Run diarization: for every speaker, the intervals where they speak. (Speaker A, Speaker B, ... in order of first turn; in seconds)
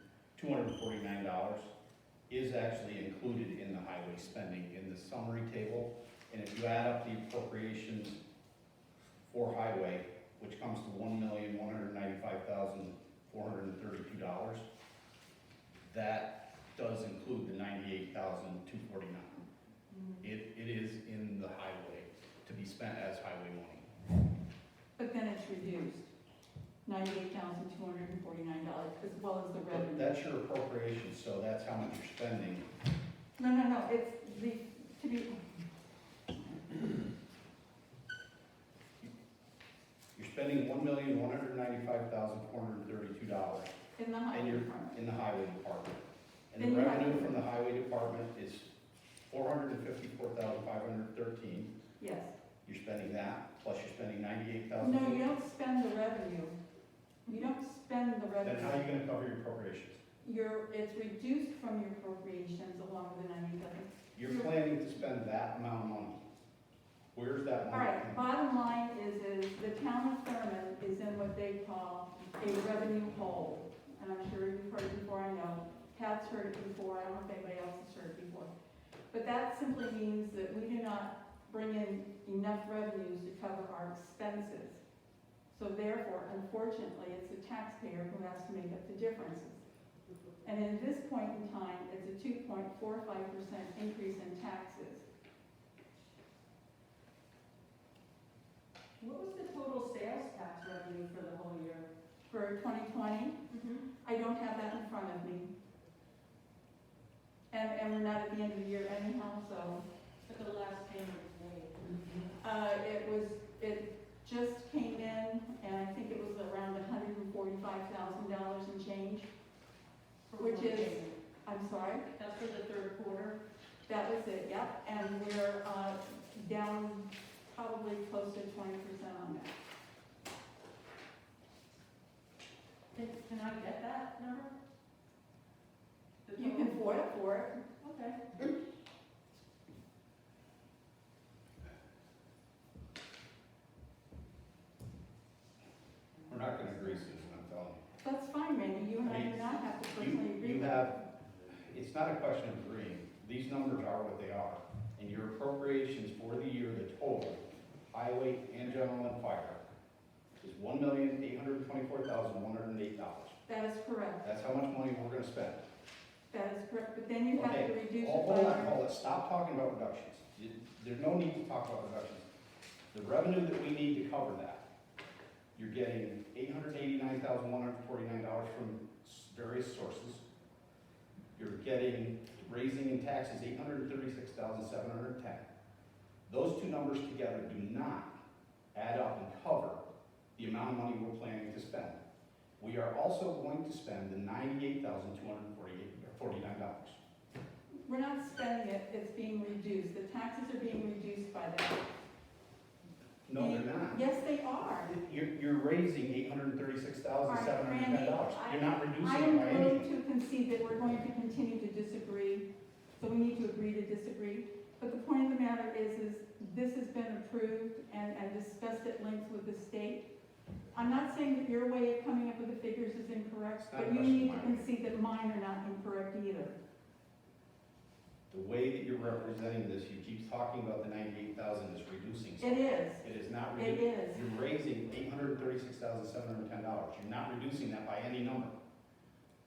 Speaker A: 0.3-1.7, 2.3-8.2, 9.3-14.7, 15.9-19.4, 20.2-23.9, 29.7-32.6, 40.1-43.7, 44.3-46.0, 46.5-48.7, 49.3-51.7, 52.6-55.3, 58.4-60.0, 64.2-66.2, 67.1-68.2, 146.2-147.8, 149.0-150.9, 151.7-159.6, 160.4-163.4, 164.2-165.7, 167.3-172.2, 172.9-174.6, 175.6-180.2, 181.4-185.5, 186.2-188.1, 188.7-189.8, 190.4-192.0, 192.6-197.0, 203.3-204.0, 204.9-209.9, 223.6-224.7, 228.3-238.5
Speaker B: 25.0-26.1, 26.9-30.1, 33.4-35.4, 36.4-36.8, 44.0-45.0, 46.6-47.3, 52.0-52.3, 54.8-56.6, 57.3-58.8, 60.2-64.5, 67.7-78.5, 79.1-84.8, 85.5-89.6, 90.4-95.0, 102.3-103.4, 104.0-105.5, 107.5-109.8, 112.4-119.3, 120.4-122.1, 123.9-129.6, 136.4-137.6, 148.0-151.0, 163.5-164.2, 166.3-168.8, 197.8-201.8, 203.4-204.9, 207.2-220.1, 220.7-226.6, 232.4-234.2
Speaker C: 99.0-101.9, 103.5-103.9, 110.2-112.0, 120.3-121.1, 122.1-123.4, 132.9-134.5, 136.2-136.8, 137.8-138.2